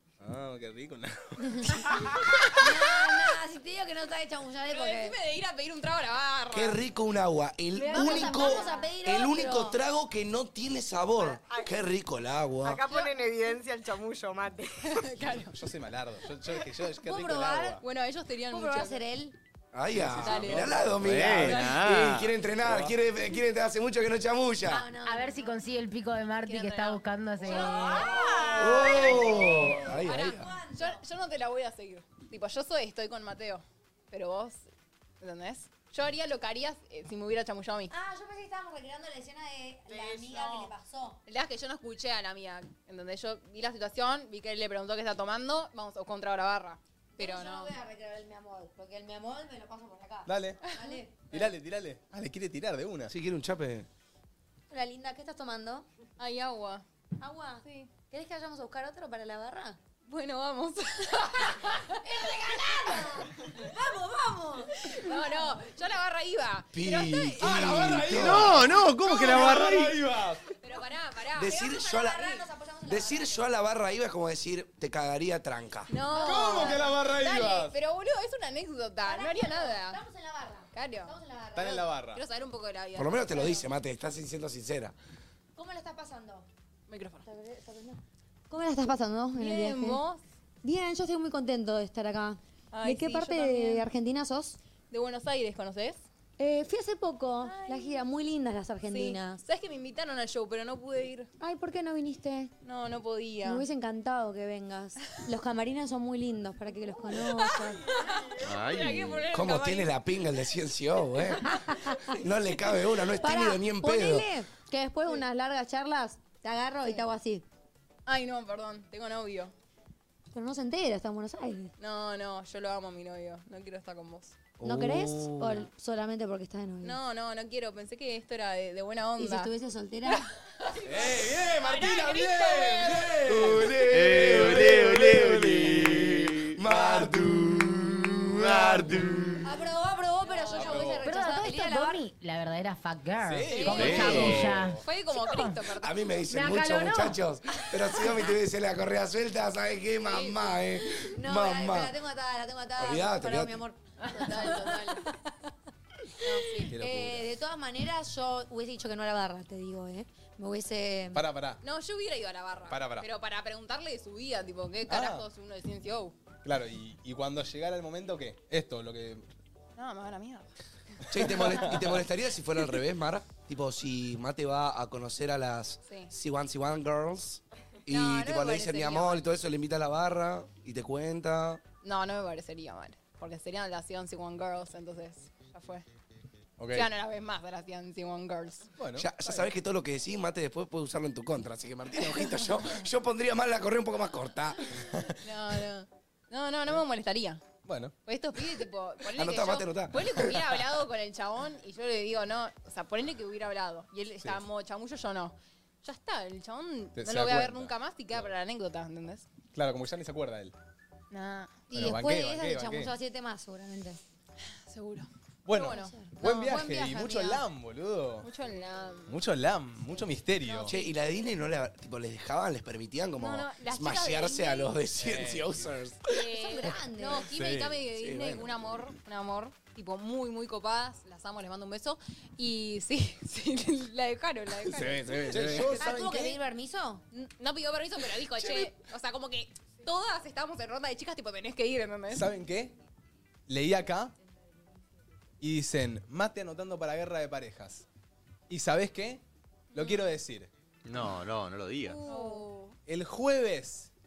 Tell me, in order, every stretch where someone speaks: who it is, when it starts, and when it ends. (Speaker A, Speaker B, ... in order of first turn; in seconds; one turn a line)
Speaker A: 0.2-2.2
Speaker B: 1.6-5.2
Speaker C: 2.1-3.1
Speaker C: 4.7-6.8
Speaker D: 6.5-12.8
Speaker E: 7.8-8.6
Speaker B: 7.8-9.8
Speaker F: 11.4-11.7
Speaker F: 12.6-15.0
Speaker C: 12.8-13.1
Speaker C: 14.8-15.6
Speaker A: 15.4-17.8
Speaker B: 17.0-17.8
Speaker C: 17.8-19.0
Speaker B: 18.5-19.4
Speaker D: 19.7-24.9
Speaker A: 19.9-21.6
Speaker C: 20.2-21.8
Speaker G: 21.0-22.3
Speaker A: 22.6-23.0
Speaker B: 24.6-25.5
Speaker E: 25.0-28.0
Speaker C: 26.4-30.2
Speaker B: 27.5-31.0
Speaker F: 27.6-29.1
Speaker D: 28.6-30.6
Speaker C: 30.7-34.7
Speaker C: 35.2-38.0
Speaker B: 37.9-41.2
Speaker F: 39.9-40.7
Speaker C: 41.3-47.8
Speaker B: 47.2-51.3
Speaker A: 50.3-50.6
Speaker C: 50.7-51.5
Speaker A: 51.3-53.1
Speaker D: 53.1-53.9
Speaker B: 54.7-55.9
Speaker C: 56.2-56.8
Speaker B: 57.2-59.8
Speaker C: 57.6-57.9
Speaker C: 60.1-62.0
Speaker B: 61.7-65.6
Speaker C: 64.8-68.0
Speaker D: 66.7-68.7
Speaker A: 67.4-70.4
Speaker G: 68.1-70.0
Speaker C: 69.0-69.9
Speaker C: 70.6-72.4
Speaker D: 71.3-72.3
Speaker B: 71.5-73.4
Speaker D: 72.9-75.9
Speaker C: 75.9-80.0
Speaker B: 76.1-77.0
Speaker A: 76.2-77.7
Speaker B: 79.0-81.9
Speaker C: 80.7-81.2
Speaker A: 81.5-82.2
Speaker C: 82.1-83.7
Speaker D: 83.0-85.0
Speaker B: 85.5-86.5
Speaker C: 86.9-87.3
Speaker B: 87.2-90.0
Speaker C: 89.4-90.2
Speaker B: 90.6-94.6
Speaker C: 92.7-93.9
Speaker C: 94.9-96.0
Speaker B: 96.4-99.4
Speaker C: 97.4-98.0
Speaker C: 98.9-101.3
Speaker B: 101.4-102.5
Speaker C: 102.6-103.7
Speaker B: 103.5-107.9
Speaker C: 107.1-110.0
Speaker G: 108.4-109.3
Speaker D: 109.3-114.3
Speaker B: 111.6-112.2
Speaker B: 113.1-117.5
Speaker C: 118.1-119.5
Speaker B: 120.3-121.7
Speaker C: 121.8-124.4
Speaker D: 124.6-125.7
Speaker B: 124.6-127.0
Speaker C: 126.8-129.5
Speaker B: 129.2-130.3
Speaker C: 130.1-133.2
Speaker A: 130.8-133.8
Speaker D: 133.2-139.5
Speaker G: 133.9-136.5
Speaker A: 136.6-137.2
Speaker G: 138.2-139.3
Speaker B: 139.4-142.1
Speaker C: 140.2-141.1
Speaker A: 140.5-141.1
Speaker E: 141.0-145.6
Speaker A: 143.2-144.8
Speaker C: 143.5-146.1
Speaker G: 143.8-144.4
Speaker D: 145.8-152.0
Speaker E: 146.3-147.2
Speaker C: 150.0-150.6
Speaker B: 151.0-155.1
Speaker D: 152.8-153.6
Speaker C: 154.0-155.1
Speaker C: 156.2-156.7
Speaker A: 156.7-157.3
Speaker B: 156.8-161.2
Speaker A: 161.1-161.6
Speaker C: 161.6-166.2
Speaker A: 162.7-163.1
Speaker A: 164.9-165.3
Speaker A: 166.4-169.2
Speaker C: 169.8-170.5
Speaker A: 171.1-172.0
Speaker D: 171.1-181.6
Speaker C: 175.9-176.1
Speaker C: 177.9-179.3
Speaker C: 181.8-185.8
Speaker A: 186.6-186.9
Speaker C: 186.7-188.7
Speaker A: 188.8-189.5
Speaker D: 188.9-194.8
Speaker C: 192.1-192.8
Speaker A: 194.9-195.2
Speaker C: 195.2-197.4
Speaker A: 197.7-197.9
Speaker C: 198.1-209.2
Speaker D: 199.2-200.3
Speaker A: 207.0-208.3
Speaker A: 209.5-210.5
Speaker C: 211.1-211.6
Speaker B: 211.7-214.0
Speaker A: 211.7-212.9
Speaker C: 214.7-215.9
Speaker A: 215.4-218.3
Speaker B: 215.6-217.4
Speaker C: 218.2-219.2
Speaker A: 219.1-220.7
Speaker C: 220.4-220.8
Speaker D: 220.6-226.3
Speaker C: 223.2-224.7
Speaker A: 225.0-225.7
Speaker C: 226.1-235.5
Speaker B: 226.2-227.4
Speaker A: 227.4-227.7
Speaker D: 227.9-228.9
Speaker D: 234.6-235.8
Speaker A: 235.3-236.4
Speaker B: 235.7-237.0
Speaker C: 237.1-242.3
Speaker A: 238.4-238.7
Speaker A: 242.1-242.7
Speaker A: 243.5-244.1
Speaker A: 245.4-247.9
Speaker A: 248.5-250.5
Speaker C: 249.7-250.1
Speaker G: 250.8-252.0
Speaker C: 251.9-252.8
Speaker B: 252.1-252.4
Speaker A: 252.9-253.9